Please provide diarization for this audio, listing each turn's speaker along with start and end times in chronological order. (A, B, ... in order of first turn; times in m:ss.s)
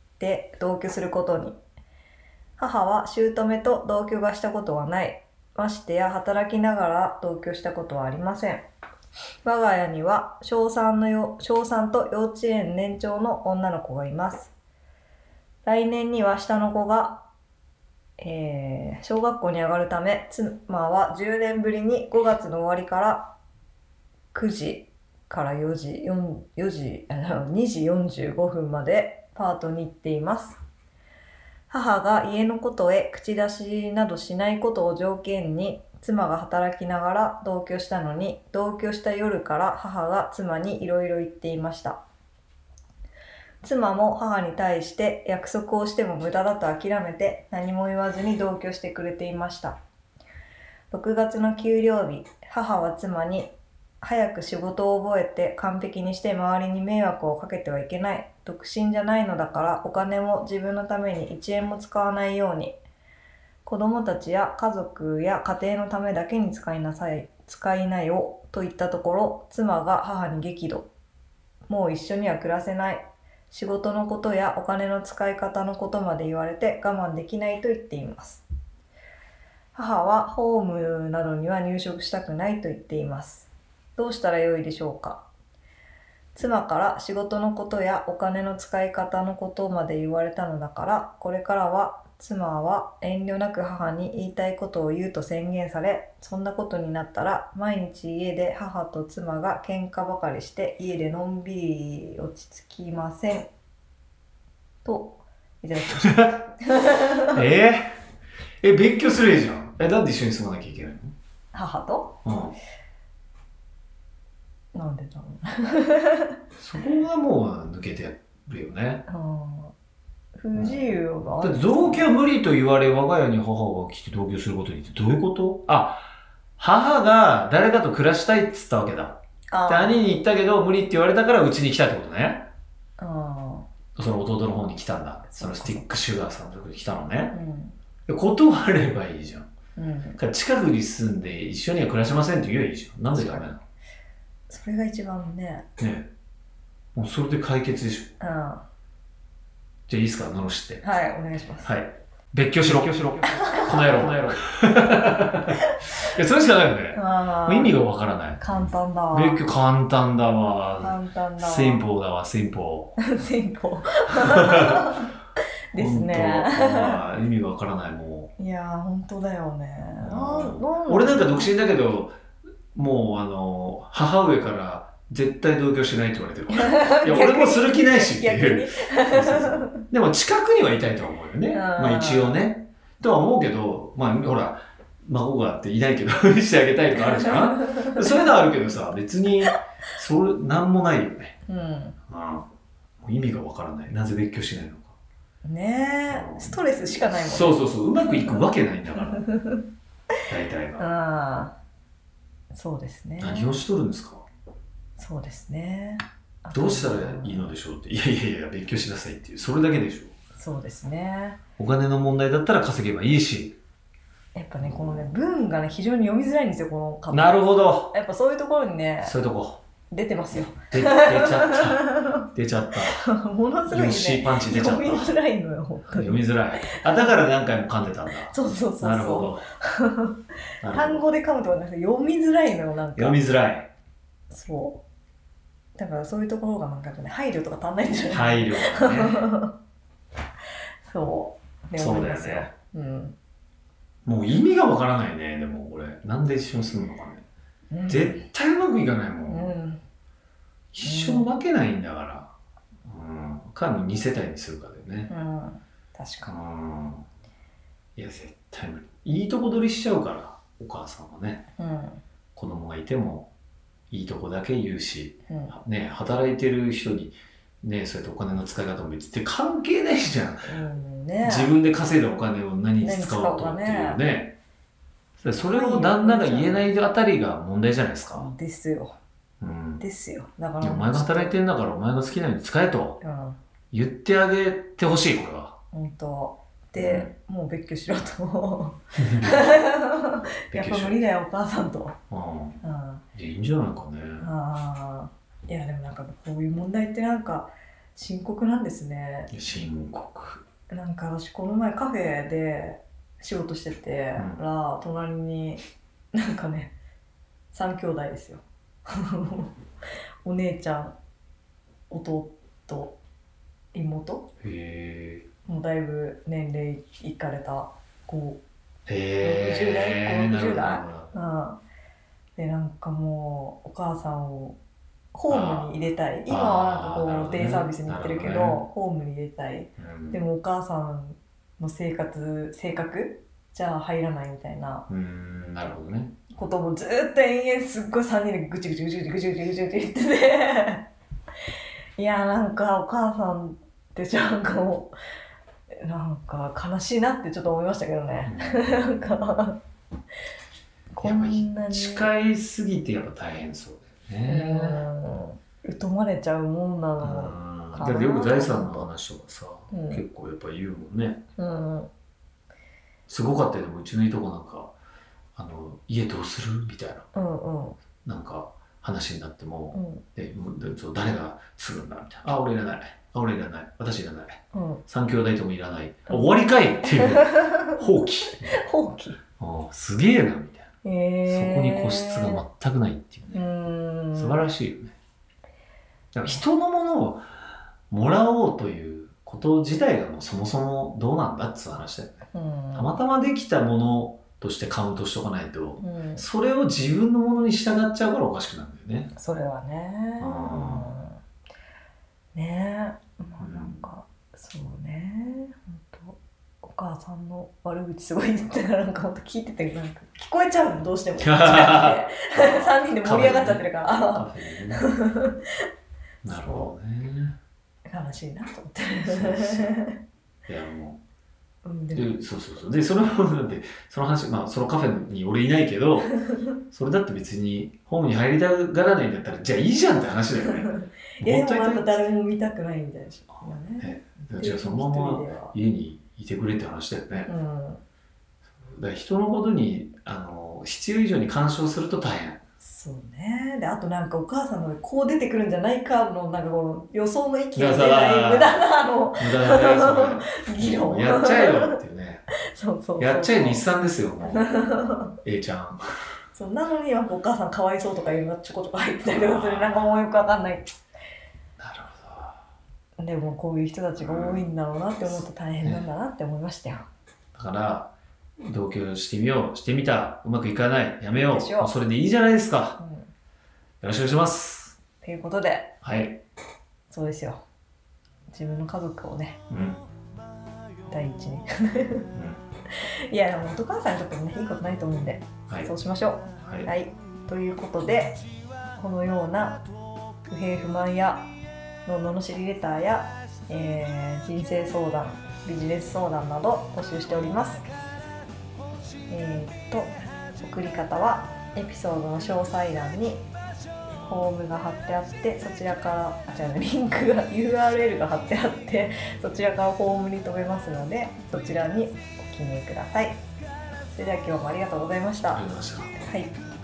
0:00.2-0:01.6 A
0:02.6-0:08.7 A
0:09.4-0:14.5 A
0:15.6-0:17.3 A
0:18.2-0:23.3 A
0:24.3-0:30.6 A
0:31.7-0:42.0 A
0:43.6-0:49.8 A
0:50.9-1:02.8 A
1:03.6-1:10.9 A
1:11.7-1:18.4 A
1:19.8-1:25.2 A
1:26.4-1:43.5 A
1:44.8-1:47.4 A
1:46.0-1:46.4 B
1:47.3-1:48.0 B
1:48.6-1:51.1 B
1:51.5-1:52.2 A
1:52.2-1:52.6 B
1:54.7-1:56.4 A
1:56.6-1:59.0 B
1:59.1-1:59.7 A
2:00.4-2:02.1 A
2:00.5-2:06.1 B
2:06.6-2:12.5 B
2:09.5-2:10.1 A
2:13.0-2:13.7 A
2:14.0-2:17.4 B
2:15.3-2:15.9 A
2:17.3-2:17.8 A
2:18.1-2:19.5 B
2:19.8-2:20.2 A
2:20.2-2:23.6 B
2:23.1-2:23.5 A
2:24.5-2:25.7 A
2:25.8-2:26.1 B
2:27.0-2:28.1 B
2:28.2-2:28.6 A
2:29.9-2:30.9 B
2:30.8-2:31.7 A
2:31.6-2:38.4 B
2:33.4-2:34.1 A
2:35.5-2:35.9 A
2:36.9-2:37.8 A
2:38.4-2:39.4 A
2:39.1-2:43.0 B
2:40.8-2:41.8 A
2:43.0-2:45.1 A
2:44.2-2:44.9 B
2:45.7-2:47.0 A
2:45.8-2:48.3 B
2:48.4-2:51.5 A
2:50.0-2:52.2 B
2:52.7-3:11.4 B
2:56.5-2:59.8 A
3:01.5-3:02.4 A
3:07.7-3:08.2 A
3:11.5-3:12.0 A
3:12.1-3:12.5 B
3:13.0-3:15.0 B
3:15.4-3:18.4 A
3:16.1-3:19.3 B
3:19.1-3:19.7 A
3:20.3-3:20.9 B
3:20.8-3:21.6 A
3:22.5-3:23.6 A
3:23.2-3:24.3 B
3:25.0-3:27.5 A
3:26.5-3:30.1 B
3:30.4-3:31.4 A
3:31.6-3:33.6 B
3:34.4-3:39.2 A
3:34.6-3:35.1 B
3:37.1-3:38.0 B
3:39.0-3:39.6 B
3:39.9-3:42.2 A
3:40.7-3:43.1 B
3:42.9-3:47.2 A
3:43.7-3:45.2 B
3:45.9-3:49.4 B
3:48.3-3:53.2 A
3:50.6-3:51.1 B
3:53.0-3:53.7 B
3:54.3-3:54.8 A
3:55.8-3:59.6 A
3:58.1-3:59.3 B
4:00.9-4:03.2 A
4:01.8-4:02.5 B
4:04.0-4:07.3 B
4:07.7-4:08.2 A
4:07.9-4:09.6 B
4:09.3-4:09.8 A
4:10.7-4:12.3 B
4:10.8-4:11.3 A
4:12.8-4:15.1 B
4:15.1-4:16.3 A
4:16.2-4:17.1 B
4:18.0-4:21.4 B
4:21.6-4:22.0 A
4:22.4-4:23.3 B
4:23.9-4:30.6 B
4:25.3-4:25.6 A
4:30.4-4:31.5 A
4:31.2-4:34.4 B
4:32.8-4:34.0 A
4:35.2-4:38.3 B
4:35.4-4:36.7 A
4:38.1-4:39.0 A
4:39.4-4:39.8 B
4:39.8-4:41.4 A
4:40.6-4:43.0 B
4:43.0-4:43.4 A
4:43.7-4:45.6 B
4:45.7-4:52.0 A
4:46.8-4:47.1 B
4:49.0-4:49.5 B
4:50.5-4:51.0 B
4:52.1-4:52.6 B
4:52.6-4:53.0 A
4:53.1-4:54.3 B
4:54.2-4:59.3 A
4:59.3-5:00.4 B
5:00.7-5:05.6 A
5:04.2-5:04.4 B
5:06.1-5:06.7 A
5:07.5-5:09.5 A
5:10.2-5:11.0 A
5:11.9-5:13.0 A
5:13.7-5:14.3 A
5:14.4-5:15.3 B
5:15.5-5:18.4 A
5:18.9-5:21.2 B
5:19.2-5:21.6 A
5:22.4-5:24.6 A
5:25.1-5:34.9 A
5:25.3-5:25.8 B
5:26.3-5:28.7 B
5:29.8-5:30.2 B
5:34.9-5:36.1 B
5:36.3-5:40.9 A
5:42.0-5:45.0 A
5:45.7-5:49.6 A
5:48.2-5:48.8 B
5:50.9-5:52.1 A
5:51.0-5:54.9 B
5:54.2-5:58.9 A
5:57.0-6:01.2 B
5:59.7-6:00.0 A
6:01.4-6:01.9 A
6:03.1-6:04.7 B
6:05.4-6:07.1 B
6:07.1-6:07.8 A
6:08.0-6:18.6 B
6:09.7-6:10.0 A
6:14.5-6:14.8 A
6:16.1-6:17.7 A
6:18.3-6:19.2 A
6:19.4-6:20.7 B
6:20.8-6:22.4 A
6:21.3-6:23.4 B
6:23.3-6:24.4 A
6:24.1-6:24.9 B
6:26.1-6:27.3 B
6:27.9-6:39.1 B
6:32.3-6:32.9 A
6:35.8-6:36.3 A
6:39.2-6:41.2 A
6:40.2-6:41.0 B
6:42.3-6:55.6 A
6:43.4-6:43.9 B
6:51.2-6:54.9 B
6:56.2-6:57.4 B
6:57.9-7:00.0 A
6:59.0-6:59.7 B
7:00.5-7:01.0 B
7:01.6-7:02.2 A
7:01.9-7:11.9 B
7:10.7-7:15.6 A
7:13.4-7:17.3 B
7:17.3-7:17.8 A
7:18.6-7:22.4 B
7:22.6-7:31.8 A
7:27.6-7:28.6 B
7:29.2-7:32.2 B
7:32.5-7:33.6 A
7:33.0-7:34.5 B
7:34.2-7:35.1 A
7:35.2-7:35.8 B
7:36.3-7:40.7 A
7:39.0-7:39.9 B
7:41.6-7:42.4 B
7:43.0-7:46.9 A
7:44.0-7:44.5 B
7:45.1-7:45.9 B
7:47.4-7:47.9 B
7:48.4-7:52.8 B
7:51.1-7:51.7 A
7:52.8-7:53.1 A
7:53.8-7:54.8 B
7:55.0-7:55.7 A
7:55.8-7:56.2 B
7:56.9-7:57.4 A
7:58.3-7:59.4 A
7:59.5-7:59.8 B
8:00.8-8:02.1 A
8:02.1-8:02.4 B
8:02.8-8:08.2 A
8:06.4-8:06.7 B
8:08.8-8:09.6 A
8:10.3-8:11.3 A
8:11.8-8:17.7 A
8:19.1-8:23.3 A
8:24.0-8:33.2 A
8:33.9-8:35.4 A
8:35.3-8:36.0 B
8:36.0-8:36.4 A